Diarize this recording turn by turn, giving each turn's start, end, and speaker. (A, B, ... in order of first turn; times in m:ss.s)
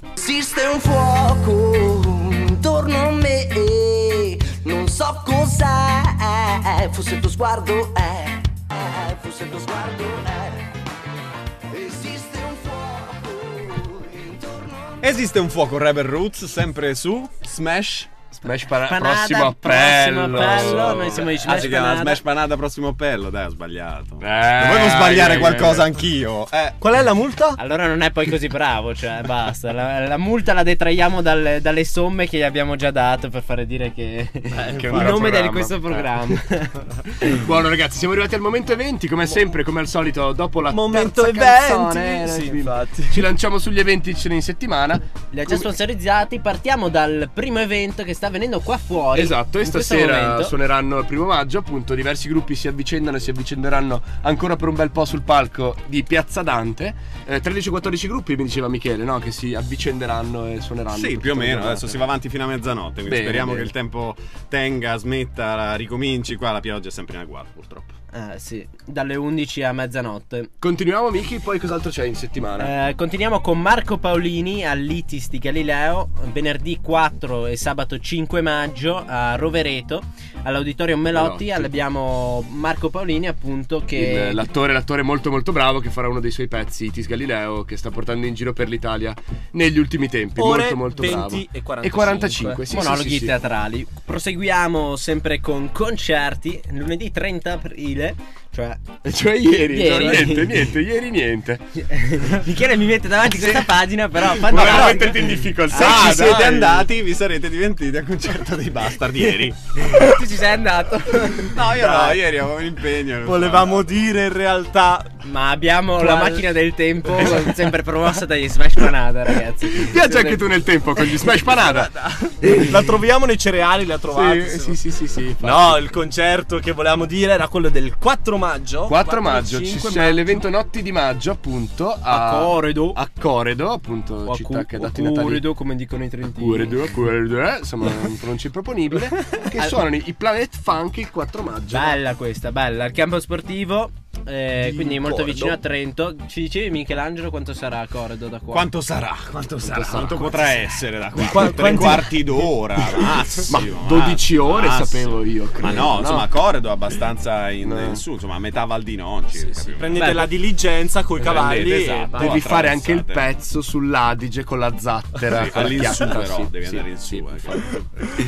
0:00.2-0:10.8 A
0:11.7-0:15.0 A
0:15.0-0:18.1 B
0:18.4-0:21.5 C
0:18.7-0:22.2 D
0:20.5-0:26.8 B
0:24.2-0:26.0 C
0:26.8-0:27.6 E
0:27.6-0:36.8 D
0:34.5-0:35.3 E
0:34.7-0:36.4 C
0:37.2-0:45.7 C
0:40.7-0:43.2 E
0:45.3-0:50.5 D
0:49.1-1:02.0 C
1:00.9-1:07.9 B
1:03.0-1:03.7 C
1:08.1-1:10.5 D
1:10.6-1:12.7 C
1:12.6-1:24.4 D
1:21.1-1:21.7 C
1:23.9-1:33.3 C
1:30.4-1:32.6 E
1:32.7-1:38.8 D
1:39.0-1:41.6 C
1:39.7-1:40.8 D
1:41.8-1:46.3 D
1:43.3-1:46.9 C
1:45.7-1:50.1 B
1:49.8-1:51.6 D
1:51.4-1:53.9 B
1:51.7-1:52.2 E
1:53.2-1:55.2 E
1:55.2-2:00.4 D
1:56.0-1:56.4 E
1:59.7-2:02.8 C
2:01.5-2:04.8 E
2:04.1-2:05.9 C
2:05.4-2:10.4 E
2:08.9-2:15.4 C
2:12.1-2:13.0 D
2:14.2-2:16.9 D
2:16.3-2:22.0 C
2:19.5-2:19.8 D
2:21.7-2:28.7 D
2:24.6-2:25.6 C
2:28.5-2:40.2 B
2:29.6-2:30.4 C
2:30.2-2:30.7 D
2:31.2-2:32.4 E
2:32.8-2:36.3 C
2:37.6-2:38.0 C
2:39.3-2:42.5 E
2:39.9-2:40.3 D
2:41.2-2:43.3 B
2:41.2-2:41.5 C
2:42.2-2:47.8 C
2:45.3-2:48.1 B